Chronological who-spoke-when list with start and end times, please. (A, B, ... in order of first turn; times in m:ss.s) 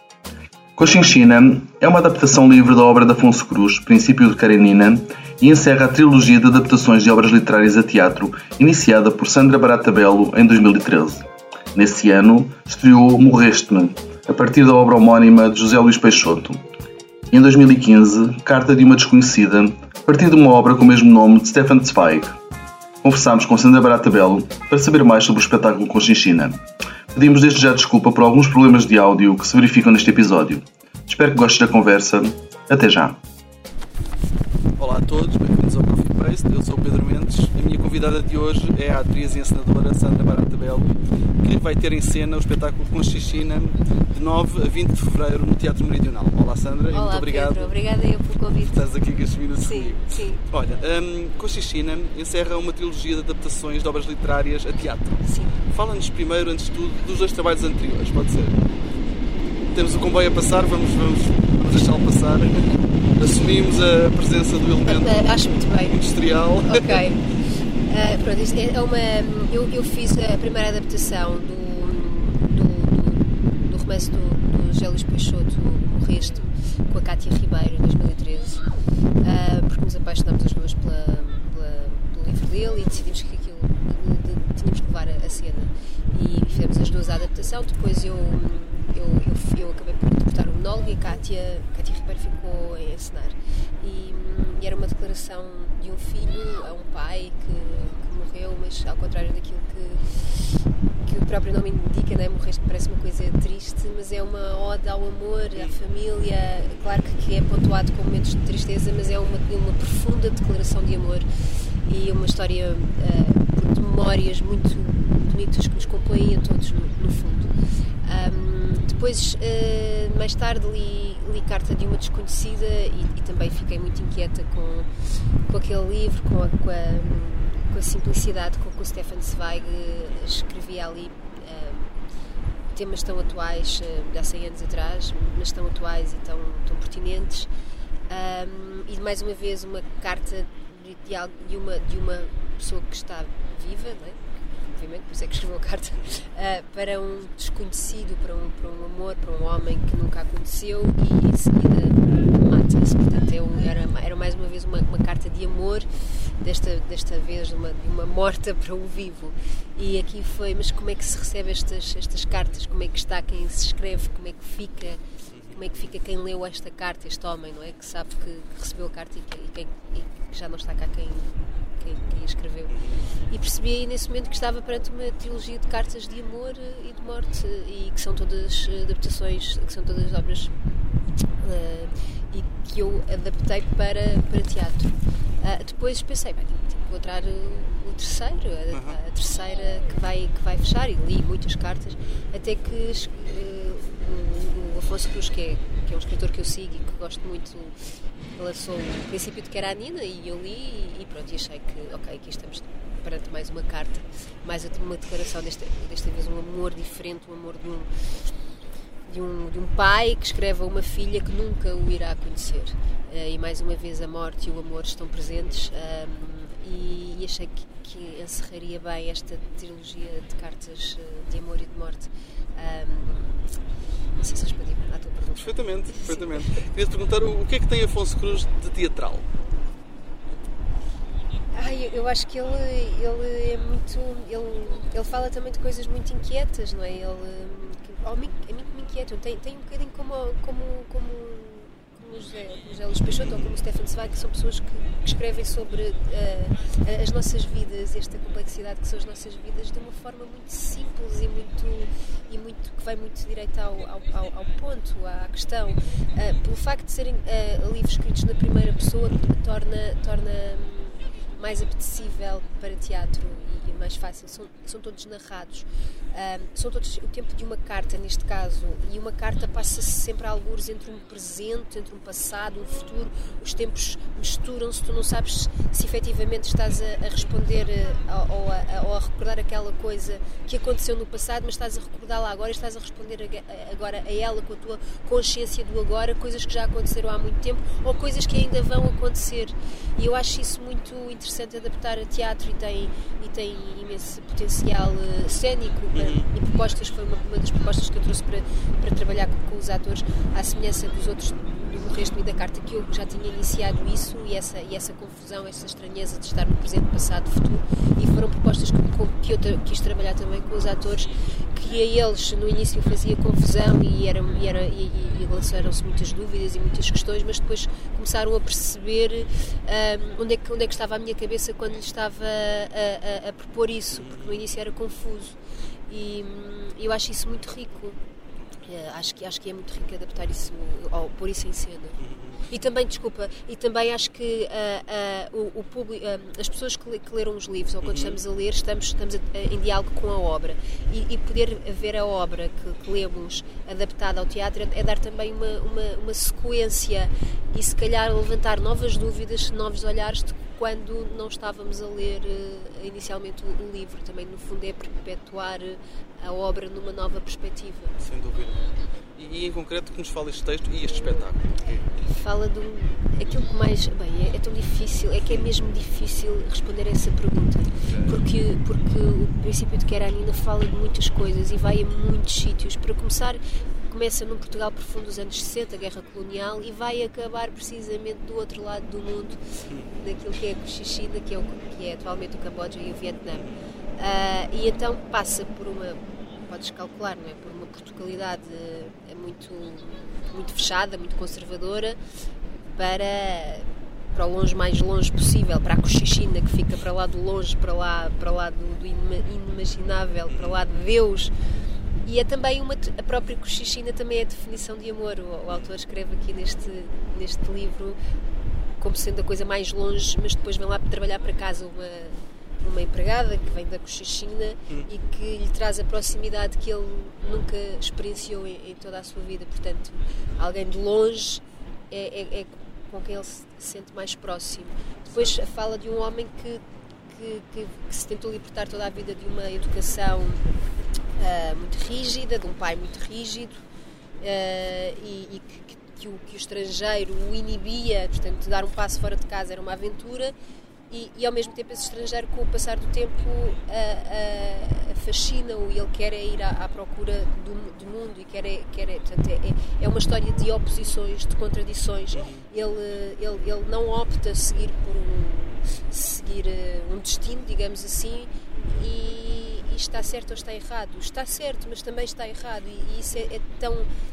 0:00.8-0:16.6 A
0:17.3-0:22.4 A
0:23.0-0:26.6 A
0:27.1-0:33.2 A
0:34.8-0:47.7 B
0:46.9-0:48.8 C
0:48.7-0:55.2 B
0:49.6-0:50.4 C
0:55.2-0:55.6 C
0:55.7-0:58.6 B
0:59.7-1:05.3 B
1:04.8-1:06.0 C
1:05.9-1:07.0 B
1:06.6-1:07.2 C
1:07.9-1:18.6 C
1:19.2-1:51.2 C
1:51.8-1:57.5 C
1:58.0-2:04.9 C
2:05.5-2:12.0 C
2:12.7-2:17.5 C
2:18.1-2:24.2 C
2:24.7-2:35.9 C
2:36.4-2:52.7 C
2:45.3-2:45.9 B
2:52.7-2:53.0 B
2:53.3-3:00.5 C
3:01.4-3:17.8 C
3:08.7-3:09.0 B
3:18.4-3:27.9 C
3:29.0-3:43.5 C
3:44.2-3:46.5 C
3:45.3-3:49.2 B
3:51.5-5:25.3 C
4:03.2-4:03.5 B
4:55.9-4:56.3 B
5:23.9-5:24.4 B
5:25.9-5:28.0 C
5:28.6-5:32.0 C
5:32.0-5:32.4 B
5:32.5-5:57.9 C
5:37.8-5:38.2 B
5:58.0-6:01.9 B
6:02.0-6:19.4 C
6:07.8-6:08.2 B
6:19.7-6:19.9 B
6:19.9-6:23.4 C
6:23.3-6:23.6 B
6:24.0-6:32.0 C
6:32.7-6:41.3 C
6:40.3-6:40.6 B
6:42.0-6:48.0 C
6:48.8-7:10.4 C
7:11.2-7:13.6 C
7:14.2-7:20.3 C
7:20.9-7:43.9 C
7:32.1-7:32.5 B